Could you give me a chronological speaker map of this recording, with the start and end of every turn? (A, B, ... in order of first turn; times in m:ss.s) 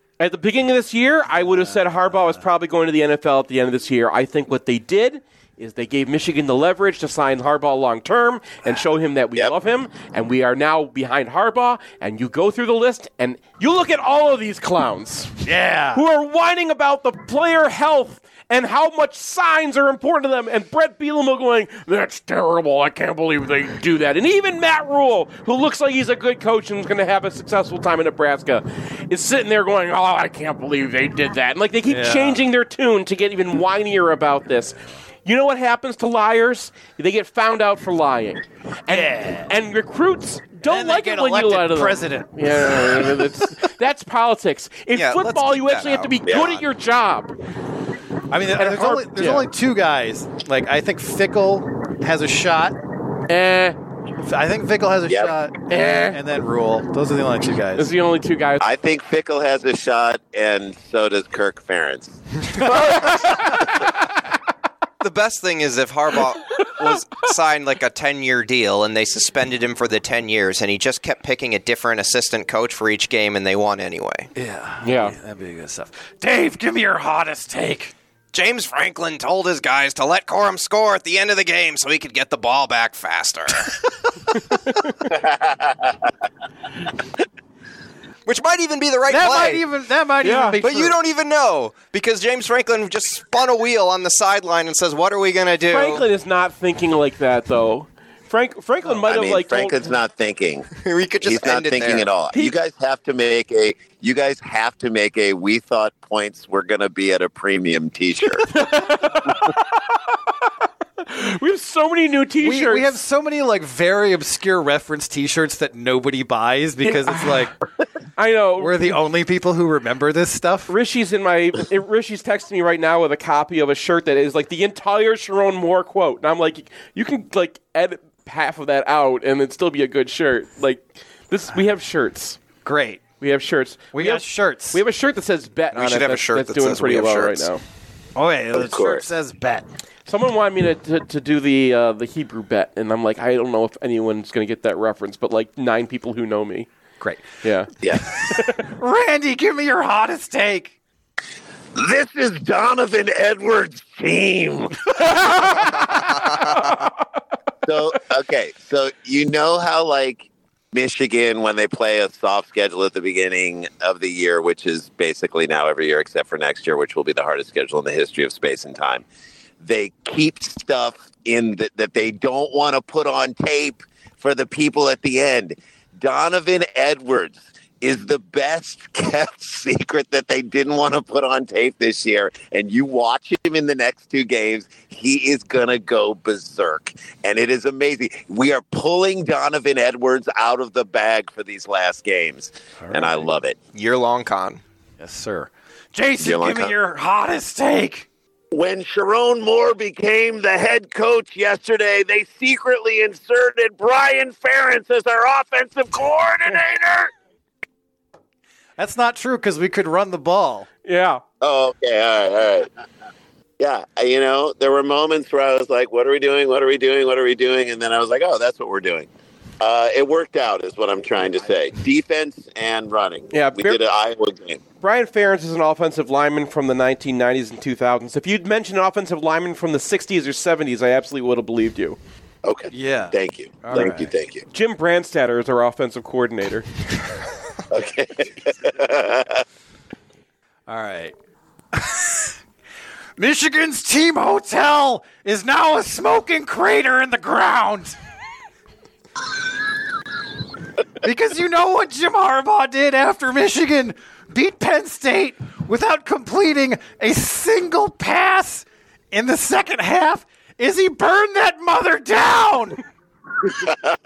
0:00.2-0:15.4 A
0:01.4-0:02.4 B
0:15.4-0:16.0 B
0:15.9-0:47.3 A
0:31.9-0:32.4 B
0:38.9-0:39.5 B
0:40.6-0:43.2 B
0:44.9-0:46.2 C
0:46.3-0:46.6 D
0:48.3-0:52.8 B
0:48.6-0:49.5 A
0:53.3-0:53.8 A
0:54.2-0:57.9 B
0:55.7-0:56.2 A
0:57.8-0:58.7 A
0:58.6-1:02.2 D
1:02.7-1:03.4 A
1:05.0-1:14.3 C
1:14.4-1:17.9 B
1:14.8-1:15.2 A
1:18.3-1:23.7 C
1:28.3-1:29.6 C
1:29.1-1:31.0 B
1:30.2-1:30.6 A
1:30.6-1:36.0 C
1:35.7-1:39.9 A
1:39.0-1:40.7 D
1:40.8-1:42.1 C
1:41.2-1:48.5 D
1:48.5-1:49.5 A
1:51.0-1:52.9 A
1:52.4-1:57.6 B
1:56.8-1:57.4 A
1:58.2-1:59.0 A
1:58.6-2:00.7 B
2:00.7-2:12.4 A
2:12.6-2:13.0 B
2:13.2-2:17.6 A
2:13.9-2:14.8 B
2:15.7-2:17.5 C
2:18.2-2:19.7 B
2:18.5-2:19.1 D
2:20.1-2:26.7 A
2:27.0-2:27.2 B
2:27.4-2:27.7 A
2:27.8-2:28.1 D
2:28.2-2:30.8 B
2:31.8-2:34.9 D
2:35.0-2:35.7 A
2:37.6-2:49.0 D
2:49.6-3:13.6 D
3:12.8-3:13.2 B
3:13.7-3:14.6 C
3:15.0-3:18.1 B
3:16.2-3:16.8 D
3:18.5-3:27.1 D
3:28.8-3:30.7 B
3:30.8-3:31.2 A
3:31.4-3:32.7 D
3:33.6-3:39.1 D
3:39.6-3:44.6 D
3:43.3-3:43.8 A
3:44.8-3:52.0 A
3:52.4-3:54.4 D
3:52.7-3:54.1 B
3:54.5-3:56.7 A
3:57.7-3:59.4 D
4:00.7-4:01.2 B
4:01.7-4:02.4 B
4:03.2-4:08.0 B
4:11.0-4:22.8 B